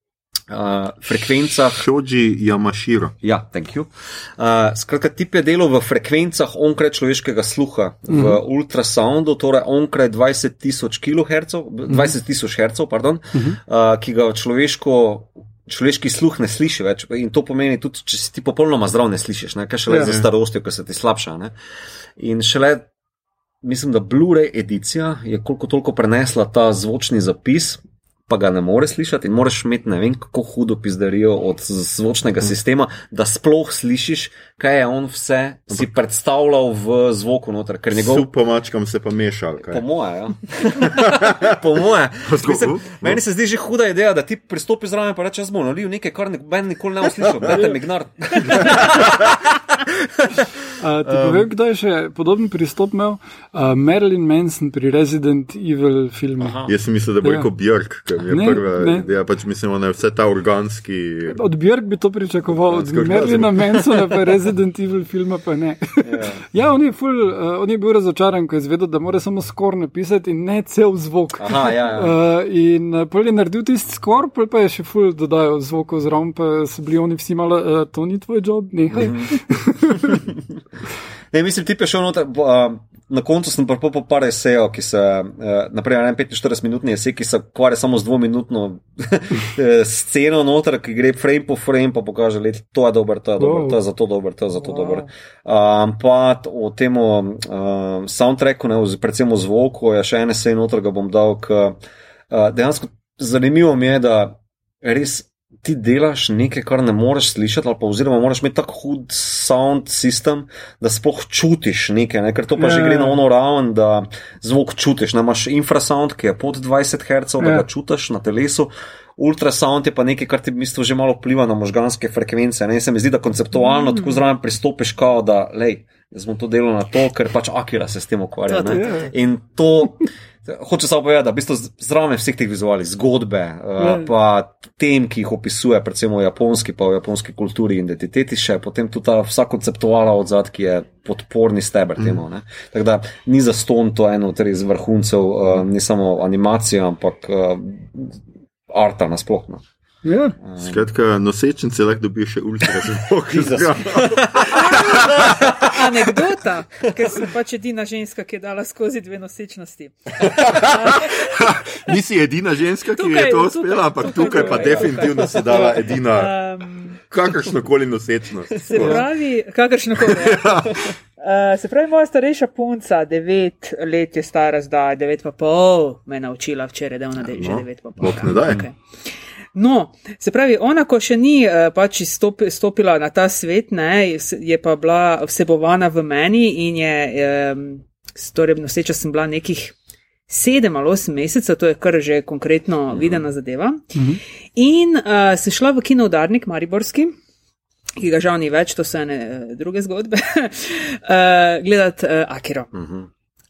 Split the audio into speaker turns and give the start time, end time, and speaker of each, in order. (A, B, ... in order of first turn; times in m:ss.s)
0:00.5-0:01.8 A
0:01.7-0:03.1 B
0:03.2-0:21.5 A
0:08.1-0:08.4 C
0:11.9-0:12.1 C
0:19.9-0:20.1 C
0:20.0-0:20.3 B
0:22.2-0:22.9 A
0:23.6-0:38.3 A
0:37.9-0:39.8 B
0:39.6-0:51.5 A
0:40.8-0:41.4 B
0:42.2-0:43.2 B
0:47.4-0:47.8 C
0:50.8-0:56.6 C
0:56.4-0:56.7 A
0:56.6-1:01.4 B
0:57.2-0:57.5 C
0:58.3-0:59.0 C
1:01.3-1:20.2 C
1:02.5-1:04.3 B
1:06.0-1:06.4 A
1:11.4-1:12.2 A
1:18.9-1:19.4 A
1:20.1-1:20.4 A
1:21.3-1:41.8 A
1:33.4-1:33.8 C
1:42.3-2:29.6 A
1:52.6-1:53.2 C
1:57.4-1:57.6 C
2:08.5-2:09.1 D
2:08.7-2:09.1 C
2:13.8-2:14.1 C
2:30.0-2:30.4 C
2:30.4-2:30.8 A
2:30.6-2:35.7 B
2:32.8-2:34.1 A
2:34.6-2:41.4 D
2:35.2-2:35.5 A
2:40.2-2:46.3 B
2:43.0-2:47.0 D
2:47.1-2:49.0 B
2:48.6-2:58.8 D
2:48.8-2:49.0 C
2:50.0-2:50.8 B
2:57.2-2:58.6 B
2:59.5-3:09.7 D
3:10.3-3:13.9 D
3:12.9-3:13.2 A
3:14.6-3:17.1 D
3:18.0-3:22.7 D
3:22.7-3:23.1 A